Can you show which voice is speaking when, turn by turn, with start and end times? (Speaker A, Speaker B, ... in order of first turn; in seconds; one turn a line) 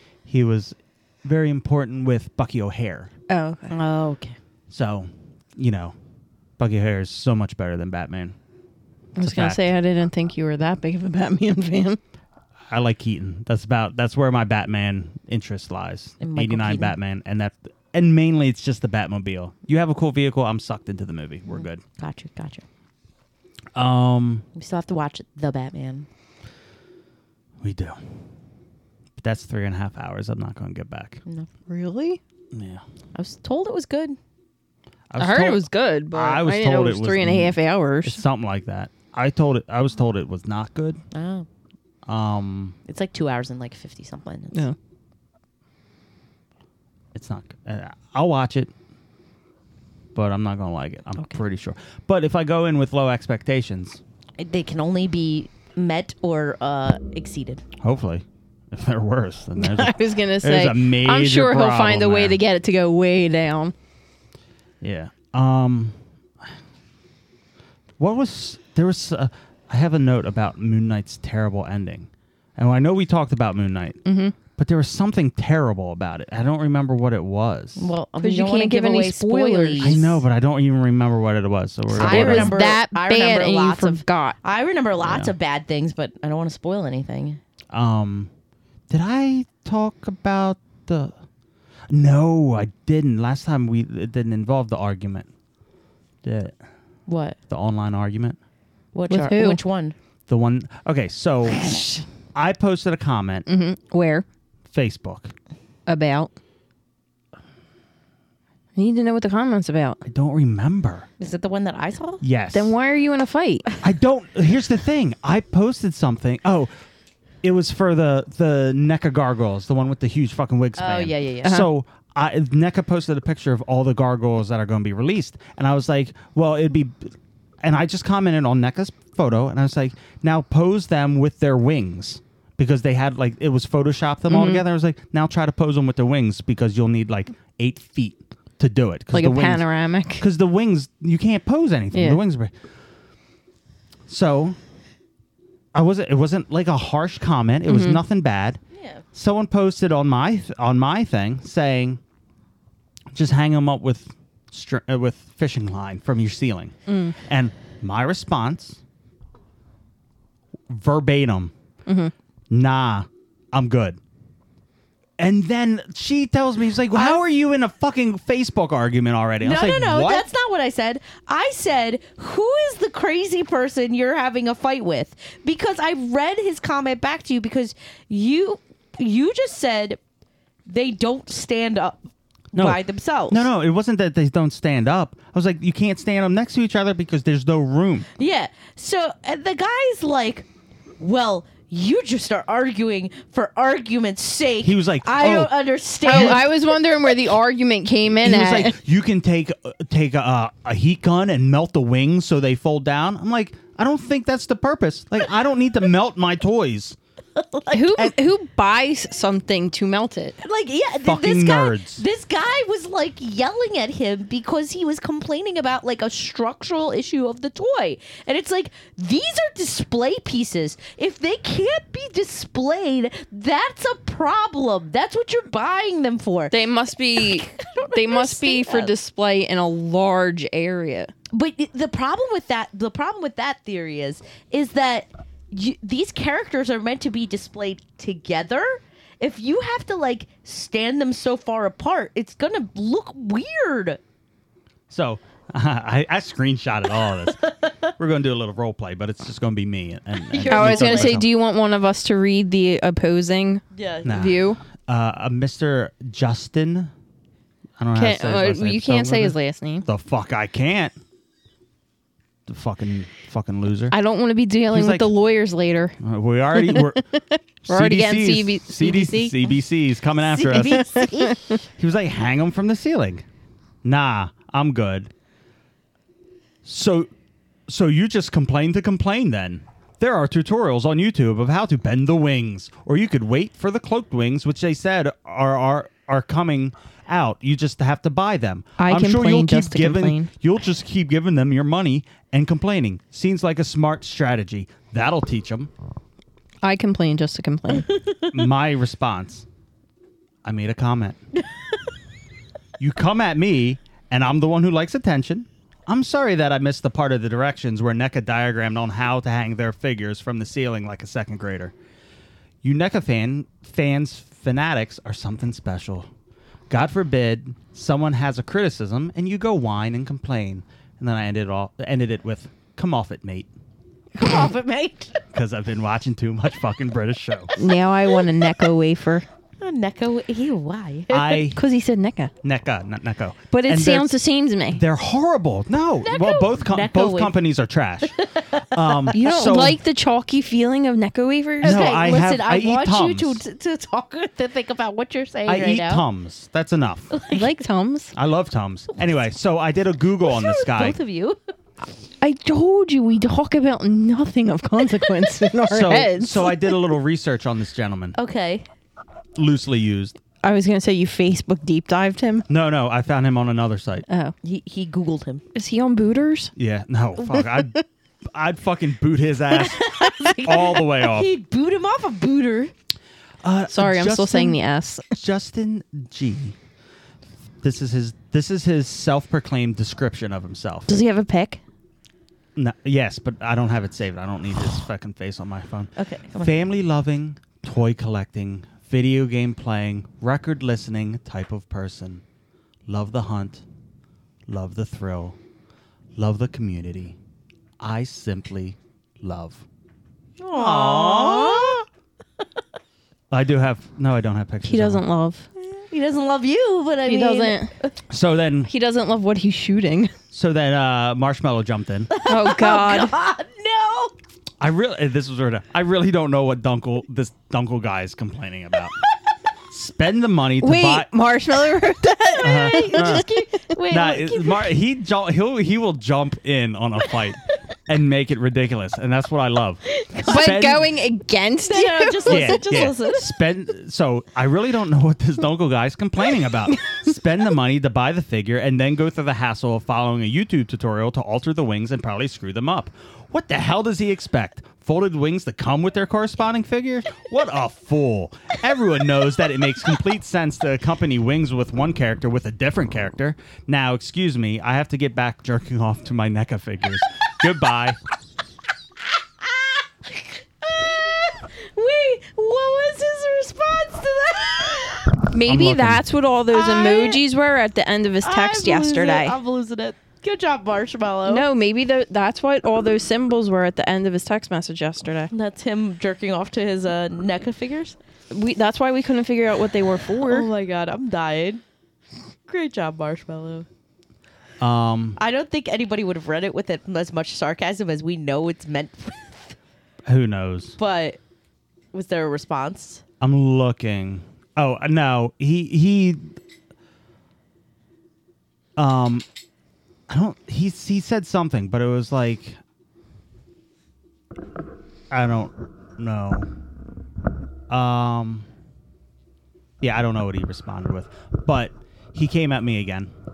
Speaker A: 0.2-3.1
Speaker B: 3.3-3.7
Speaker C: 3.7-4.4
Speaker A: 4.7-6.0
Speaker A: 6.6-8.3
Speaker B: 9.2-12.0
Speaker A: 9.2-9.6
Speaker A: 12.7-21.8
Speaker C: 16.2-16.9
Speaker C: 21.5-22.6
Speaker A: 23.7-24.4
Speaker C: 24.5-26.1
Speaker A: 27.6-28.0
Speaker A: 29.2-31.2
Speaker B: 31.7-32.2
Speaker A: 32.5-32.8
Speaker C: 33.1-34.2
Speaker A: 35.1-41.0
Speaker B: 35.2-38.2
Speaker C: 41.1-41.5
Speaker A: 42.0-42.8
Speaker C: 42.9-44.7
Speaker A: 47.1-48.7
Speaker A: 50.1-54.0
Speaker C: 54.4-57.6
Speaker A: 57.8-62.4
Speaker B: 59.6-63.7
Speaker A: 64.8-66.0
Speaker A: 68.0-74.0
Speaker B: 74.0-74.3
Speaker A: 74.5-77.9
Speaker C: 77.8-80.0
Speaker B: 78.2-80.1
Speaker A: 79.8-82.5
Speaker B: 81.9-84.4
Speaker C: 82.0-87.4
Speaker A: 85.0-85.3
Speaker A: 87.7-88.3
Speaker A: 88.9-91.1
Speaker A: 91.9-95.3
Speaker A: 96.2-96.6
Speaker C: 97.1-97.4
Speaker A: 97.5-98.4
Speaker C: 98.9-99.9
Speaker B: 99.1-99.6
Speaker A: 100.3-101.7
Speaker C: 101.6-101.9
Speaker A: 102.3-103.5
Speaker B: 103.5-104.2
Speaker A: 104.7-105.3
Speaker B: 105.9-106.3
Speaker B: 108.8-110.0
Speaker A: 110.0-111.1
Speaker C: 111.2-112.2
Speaker A: 112.2-112.7
Speaker B: 112.5-113.7
Speaker A: 113.8-116.7
Speaker A: 117.4-139.6
Speaker C: 120.8-121.6
Speaker B: 121.4-121.7
Speaker B: 134.3-134.6
Speaker B: 139.1-140.2
Speaker A: 140.2-142.5
Speaker B: 141.9-142.2
Speaker A: 144.1-144.6
Speaker A: 145.7-148.6
Speaker B: 147.7-148.0
Speaker C: 148.7-149.0
Speaker A: 149.1-152.0
Speaker A: 153.1-158.8
Speaker B: 156.9-157.2
Speaker A: 160.7-161.5
Speaker B: 161.8-162.1
Speaker A: 162.5-164.0
Speaker A: 165.2-170.3
Speaker C: 166.9-167.2
Speaker C: 169.4-180.0
Speaker C: 180.7-183.5
Speaker A: 182.5-188.1
Speaker C: 188.2-190.5
Speaker C: 191.0-197.1
Speaker A: 194.6-196.4
Speaker B: 196.0-198.8
Speaker A: 198.2-207.0
Speaker C: 207.3-208.1
Speaker B: 207.7-210.4
Speaker C: 210.4-226.6
Speaker A: 211.0-212.0
Speaker B: 226.5-231.1
Speaker C: 227.1-228.9
Speaker C: 231.3-244.0
Speaker A: 244.9-251.3
Speaker C: 246.9-247.8
Speaker C: 250.3-251.2
Speaker B: 250.5-254.6
Speaker C: 253.7-254.3
Speaker A: 254.0-256.9
Speaker A: 257.8-261.0
Speaker B: 257.9-259.9
Speaker A: 262.5-263.9
Speaker B: 263.9-266.0
Speaker A: 264.7-265.1
Speaker A: 266.0-267.0
Speaker B: 266.5-269.5
Speaker A: 267.6-270.9
Speaker C: 270.2-271.4
Speaker B: 270.5-271.4
Speaker A: 271.8-273.2
Speaker A: 273.8-275.1
Speaker A: 276.6-277.1
Speaker A: 277.7-295.7
Speaker B: 288.8-290.3
Speaker B: 296.6-297.9
Speaker C: 297.8-298.3
Speaker A: 298.3-299.4
Speaker A: 300.4-301.2
Speaker A: 302.8-311.7
Speaker A: 312.6-316.1
Speaker A: 316.7-323.5
Speaker C: 324.1-325.2
Speaker A: 325.3-327.5
Speaker B: 327.6-329.2
Speaker C: 327.6-328.7
Speaker C: 329.6-331.4
Speaker A: 331.1-331.6
Speaker B: 331.5-332.3
Speaker A: 332.4-334.1
Speaker B: 333.5-334.8
Speaker A: 334.7-339.8
Speaker C: 336.0-337.4
Speaker C: 338.0-339.1
Speaker B: 339.1-341.9
Speaker C: 341.6-346.0
Speaker A: 341.6-343.4
Speaker A: 345.4-347.1
Speaker C: 347.1-347.5
Speaker B: 347.3-348.1
Speaker A: 348.1-351.0
Speaker C: 350.2-351.4
Speaker B: 352.2-356.7
Speaker C: 354.9-355.3
Speaker A: 355.7-358.1
Speaker C: 358.1-358.7
Speaker A: 359.4-360.2
Speaker B: 360.4-362.5
Speaker A: 362.5-364.1
Speaker B: 364.1-364.3
Speaker C: 364.4-365.4
Speaker B: 365.5-366.5
Speaker A: 366.6-367.8
Speaker A: 368.3-371.3
Speaker C: 369.6-372.7
Speaker A: 373.4-374.6
Speaker B: 373.7-375.1
Speaker A: 375.1-376.6
Speaker A: 377.6-381.0
Speaker B: 380.9-381.6
Speaker A: 382.6-392.2
Speaker C: 385.9-386.6
Speaker A: 392.9-393.6
Speaker A: 394.5-395.4
Speaker A: 396.1-397.1
Speaker A: 397.8-399.6
Speaker C: 400.4-401.8
Speaker A: 400.5-401.8
Speaker A: 403.3-405.0
Speaker B: 404.6-405.5
Speaker C: 405.6-407.9
Speaker B: 407.1-407.7
Speaker A: 408.1-408.7
Speaker B: 408.7-410.1
Speaker A: 410.3-412.1
Speaker C: 412.1-414.1
Speaker B: 412.3-413.1
Speaker A: 414.6-419.0
Speaker A: 419.7-421.1
Speaker B: 420.6-423.3
Speaker C: 422.3-424.7
Speaker A: 422.4-423.3
Speaker A: 423.9-430.8
Speaker C: 429.9-430.7
Speaker B: 430.3-432.6
Speaker C: 431.6-433.4
Speaker A: 432.3-458.0
Speaker B: 436.7-437.1
Speaker C: 459.4-465.3
Speaker B: 465.3-469.4
Speaker A: 465.4-466.0
Speaker C: 466.5-467.2
Speaker C: 468.2-471.4
Speaker B: 471.3-475.3
Speaker C: 475.3-478.0
Speaker B: 478.3-480.5
Speaker C: 480.2-481.6
Speaker C: 482.4-483.7
Speaker A: 484.6-485.2
Speaker C: 485.2-489.6
Speaker A: 490.1-490.8
Speaker C: 490.8-491.2
Speaker C: 491.9-493.0
Speaker A: 493.2-496.3
Speaker A: 498.8-499.2
Speaker A: 500.1-502.6
Speaker A: 505.1-506.5
Speaker A: 507.7-508.5
Speaker A: 509.8-513.1